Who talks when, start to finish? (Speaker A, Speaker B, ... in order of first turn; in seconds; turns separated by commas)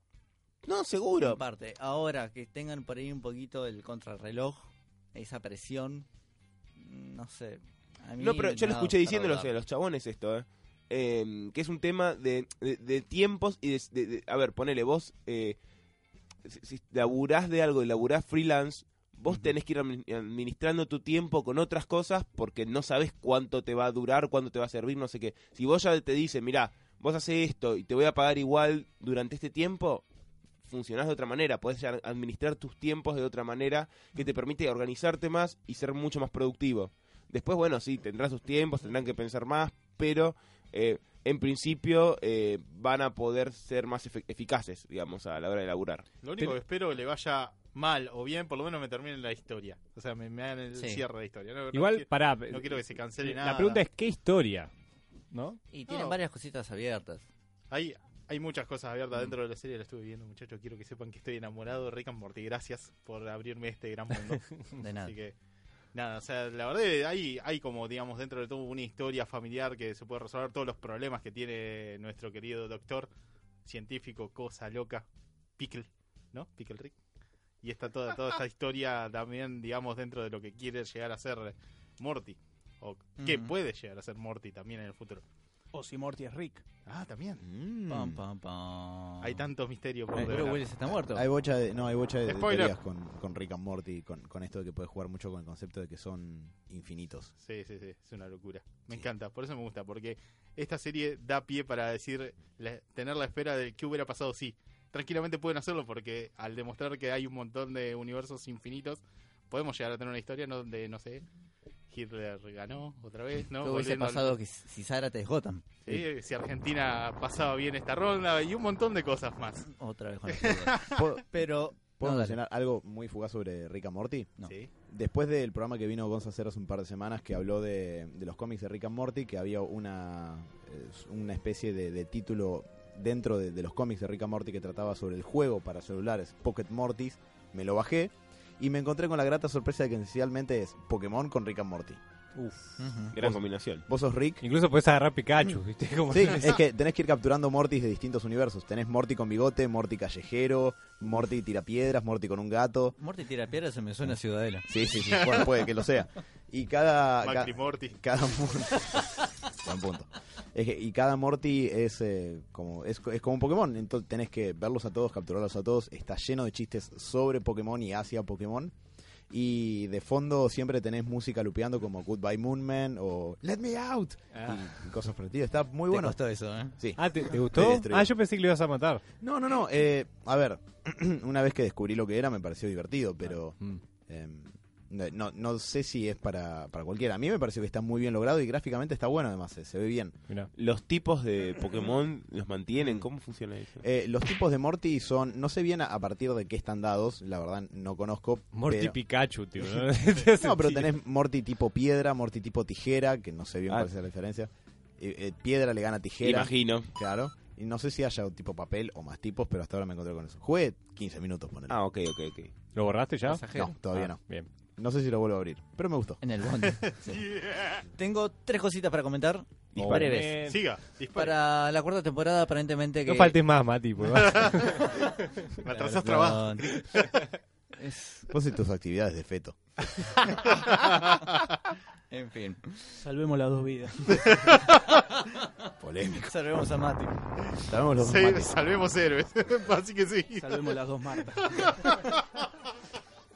Speaker A: 0.6-1.4, Speaker B: 1.2-6.1, Speaker B: 6.8-9.5, Speaker A: 8.2-15.6, Speaker A: 16.4-30.0, Speaker A: 30.7-46.1, Speaker C: 46.2-53.8, Speaker B: 50.8-51.0, Speaker D: 51.7-54.7, Speaker D: 55.3-55.6, Speaker B: 55.7-57.3, Speaker C: 55.9-56.2, Speaker C: 57.7-64.5, Speaker B: 64.8-65.1, Speaker C: 65.0-65.3, Speaker C: 65.9-73.1, Speaker C: 73.7-75.1, Speaker C: 75.6-77.0, Speaker C: 77.6-85.2, Speaker B: 83.2-83.5, Speaker E: 85.7-86.6, Speaker C: 86.9-87.4, Speaker F: 87.4-88.2, Speaker B: 87.9-89.5, Speaker C: 89.2-90.7, Speaker B: 90.2-91.2, Speaker F: 90.2-97.3, Speaker C: 92.3-92.8, Speaker C: 97.4-111.2, Speaker C: 111.9-114.3, Speaker B: 113.6-115.7, Speaker C: 115.8-119.7, Speaker B: 119.7-122.4, Speaker C: 120.3-121.1, Speaker F: 121.0-124.3, Speaker C: 124.4-124.7, Speaker F: 124.9-142.0, Speaker D: 142.4-142.7, Speaker B: 142.8-143.1, Speaker A: 143.1-143.8, Speaker F: 143.2-144.4, Speaker D: 144.4-146.6, Speaker F: 146.1-153.0, Speaker B: 153.0-154.7, Speaker F: 154.7-168.7, Speaker C: 157.2-158.0, Speaker F: 169.3-176.2, Speaker B: 175.9-176.8, Speaker F: 176.8-178.1, Speaker D: 177.0-179.0, Speaker F: 179.2-190.2, Speaker A: 190.6-193.8, Speaker F: 193.8-199.0, Speaker D: 198.5-200.9, Speaker F: 200.3-211.8, Speaker A: 206.2-206.9, Speaker A: 211.7-212.5, Speaker D: 212.8-214.5, Speaker B: 213.2-213.8, Speaker F: 213.5-214.2, Speaker F: 214.8-216.2, Speaker B: 216.2-217.2, Speaker C: 217.0-217.8, Speaker B: 217.9-220.4, Speaker A: 219.7-220.1, Speaker D: 219.9-220.6, Speaker C: 220.4-221.4, Speaker B: 221.2-223.4, Speaker D: 223.1-225.3, Speaker C: 224.2-224.9, Speaker C: 225.6-227.1, Speaker B: 225.7-227.0, Speaker B: 227.8-228.3, Speaker F: 228.3-229.9, Speaker C: 230.5-231.4, Speaker B: 232.1-233.0, Speaker E: 233.0-234.4, Speaker C: 234.2-234.8, Speaker F: 235.8-236.3, Speaker B: 236.2-237.2, Speaker F: 237.6-238.5, Speaker C: 238.0-240.7, Speaker E: 240.4-241.7, Speaker C: 241.4-242.5